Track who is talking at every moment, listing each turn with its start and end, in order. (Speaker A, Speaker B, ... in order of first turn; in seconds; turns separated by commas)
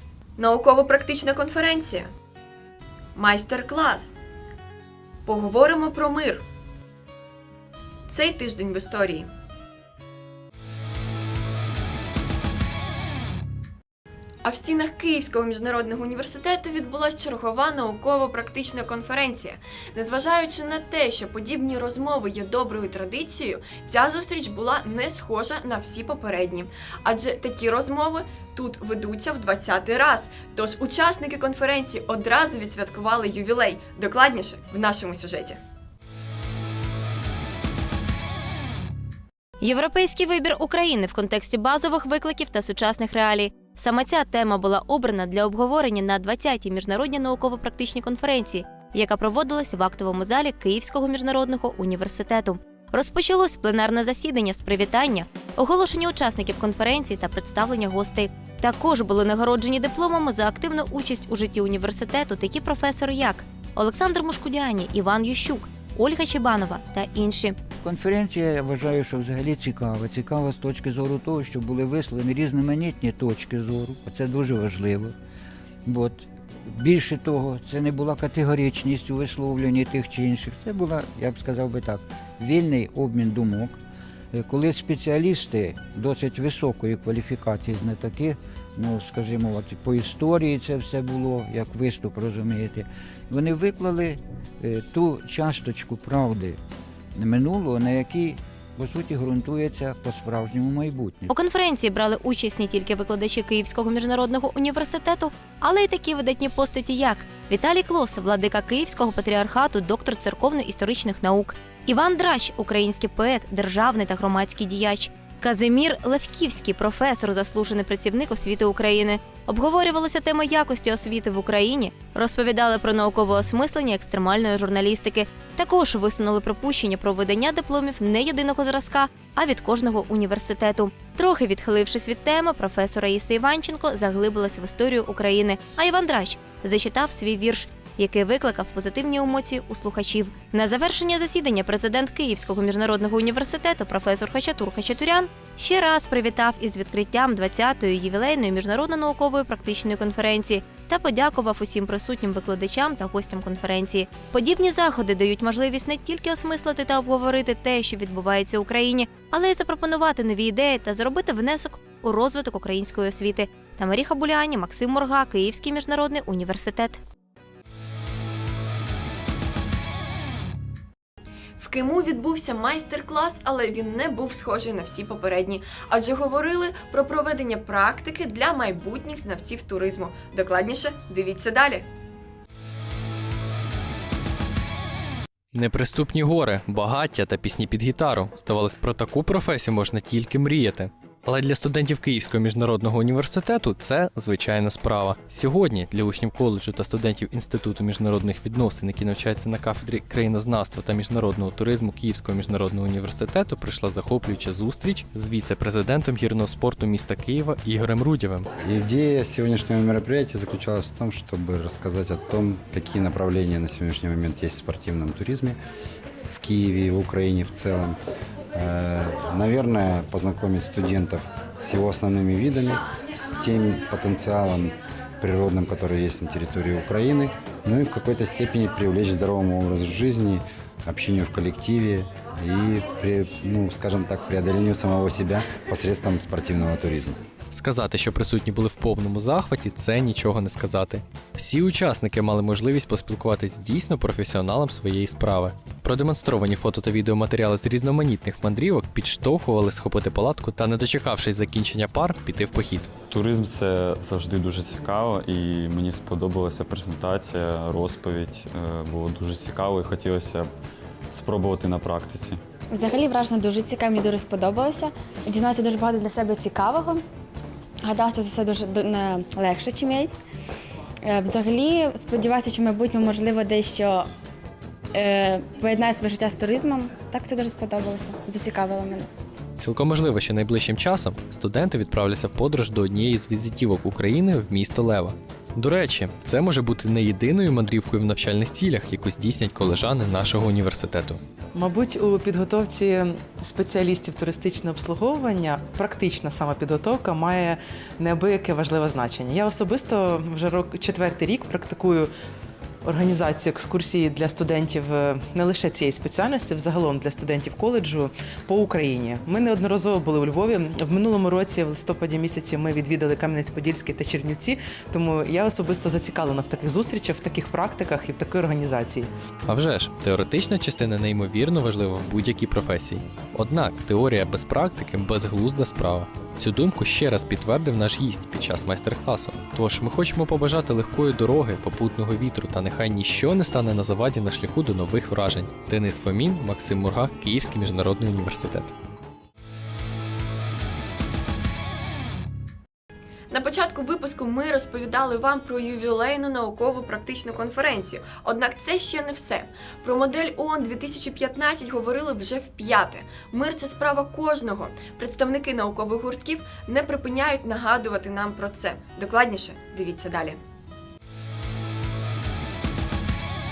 Speaker A: 0.4-2.1, Speaker A: 3.2-4.1, Speaker A: 5.3-6.4, Speaker A: 8.1-9.3, Speaker A: 14.4-35.6, Speaker B: 39.6-67.6, Speaker C: 67.8-75.1, Speaker C: 75.9-83.8, Speaker C: 84.3-96.6, Speaker C: 97.2-101.3, Speaker B: 101.3-167.0, Speaker A: 171.6-181.8, Speaker D: 185.5-208.5, Speaker E: 208.6-215.6, Speaker E: 216.2-218.0, Speaker E: 218.5-237.2, Speaker D: 237.5-252.9, Speaker F: 253.1-260.5, Speaker F: 261.1-262.4, Speaker G: 262.7-267.0, Speaker G: 267.8-270.2, Speaker G: 271.0-274.1, Speaker G: 274.9-279.1, Speaker D: 279.6-291.2, Speaker H: 291.6-302.1, Speaker H: 302.9-319.1, Speaker D: 319.5-338.7, Speaker A: 343.3-360.4